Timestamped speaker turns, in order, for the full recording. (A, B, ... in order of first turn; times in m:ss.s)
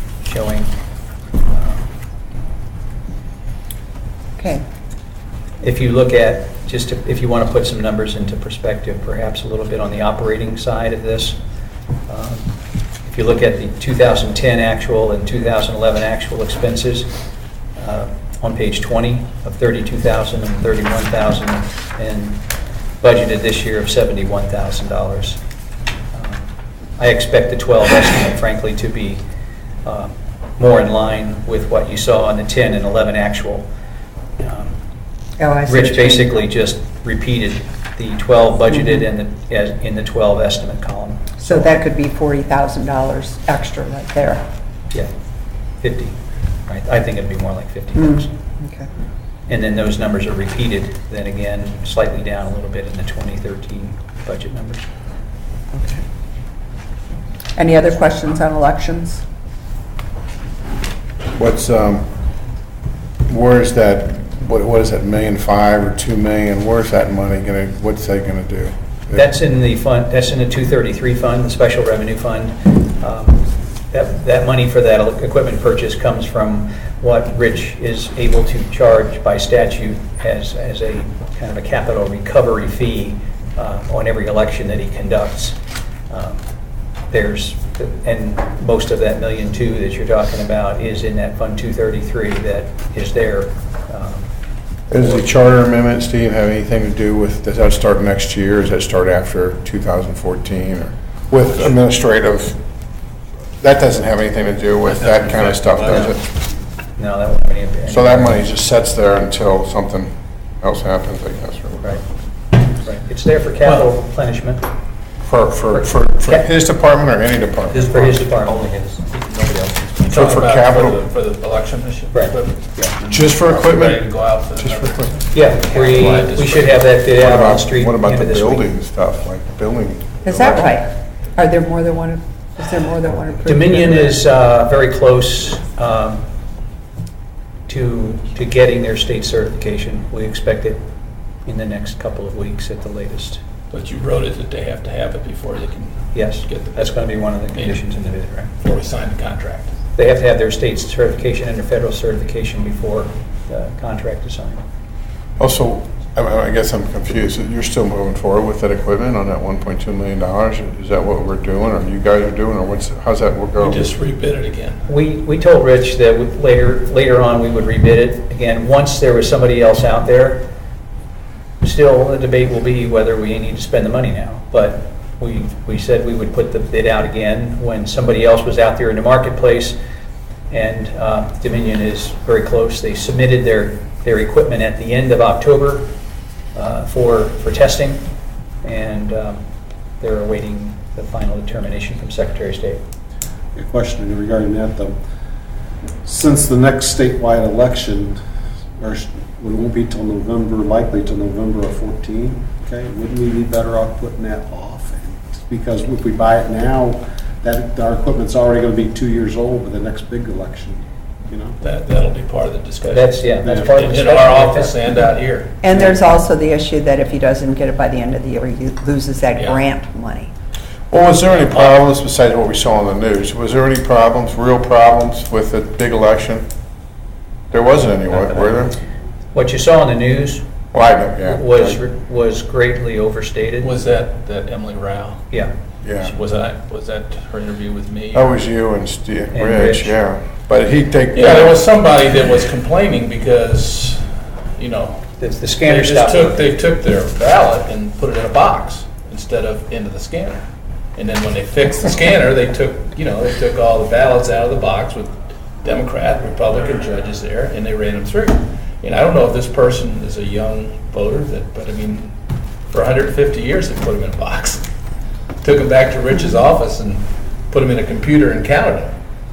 0:00.2-0:00.7 A
0:01.5-0:01.9 A
0:04.4-0:04.6 B
0:05.6-0:11.4 A
0:12.1-0:12.5 A
0:13.0-0:17.1 A
0:17.8-0:22.4 A
0:23.0-0:25.4 A
0:26.1-0:29.2 A
0:29.8-0:33.7 A
0:34.4-0:34.7 A
0:35.4-0:36.4 B
0:35.7-0:41.8 A
0:41.4-0:44.4 B
0:45.8-0:48.3 A
0:48.0-0:48.9 B
0:49.5-0:54.9 A
0:55.7-0:56.0 B
0:57.6-0:59.2 B
1:01.4-1:02.1 C
1:03.3-1:09.2 C
1:09.1-1:25.6 A
1:26.1-1:26.4 A
1:27.1-1:34.3 A
1:34.9-1:42.6 C
1:43.6-1:46.2 C
1:44.8-1:46.2 D
1:47.0-1:48.4 A
1:47.9-1:52.0 C
1:52.6-1:54.7 A
1:55.2-1:58.2 C
1:55.7-1:56.5 A
1:57.7-1:58.7 A
1:59.1-2:07.0 D
1:59.5-2:00.1 A
2:00.1-2:01.0 C
2:02.1-2:03.0 A
2:03.1-2:05.2 C
2:05.3-2:08.7 A
2:07.2-2:10.8 C
2:10.2-2:14.2 B
2:13.5-2:16.2 A
2:17.7-2:20.8 A
2:21.5-2:23.4 A
2:23.7-2:26.9 D
2:26.1-2:28.5 A
2:27.5-2:27.8 D
2:28.6-2:29.7 D
2:30.0-2:34.6 A
2:35.4-2:43.9 C
2:43.6-2:44.8 D
2:44.9-2:50.5 A
2:51.6-2:59.8 A
3:00.5-3:05.9 A
3:06.6-3:08.0 A
3:08.6-3:09.4 A
3:10.0-3:12.8 A
3:13.6-3:15.0 E
3:16.0-3:18.2 E
3:18.8-3:31.6 E
3:31.6-3:35.7 D
3:32.9-3:34.8 A
3:33.4-3:33.8 E
3:35.6-3:40.3 B
3:39.4-3:39.6 D
3:40.9-3:46.5 C
3:47.5-3:48.8 C
3:49.3-3:50.4 A
3:50.7-3:51.8 C
3:51.2-3:53.7 A
3:53.6-3:55.3 D
3:55.8-3:56.1 C
3:56.0-3:58.4 D
3:58.1-4:01.6 C
3:59.3-4:00.0 A
4:01.1-4:05.1 D
4:05.2-4:06.5 A
4:05.6-4:22.1 D
4:22.7-4:24.7 D
4:25.4-4:29.0 D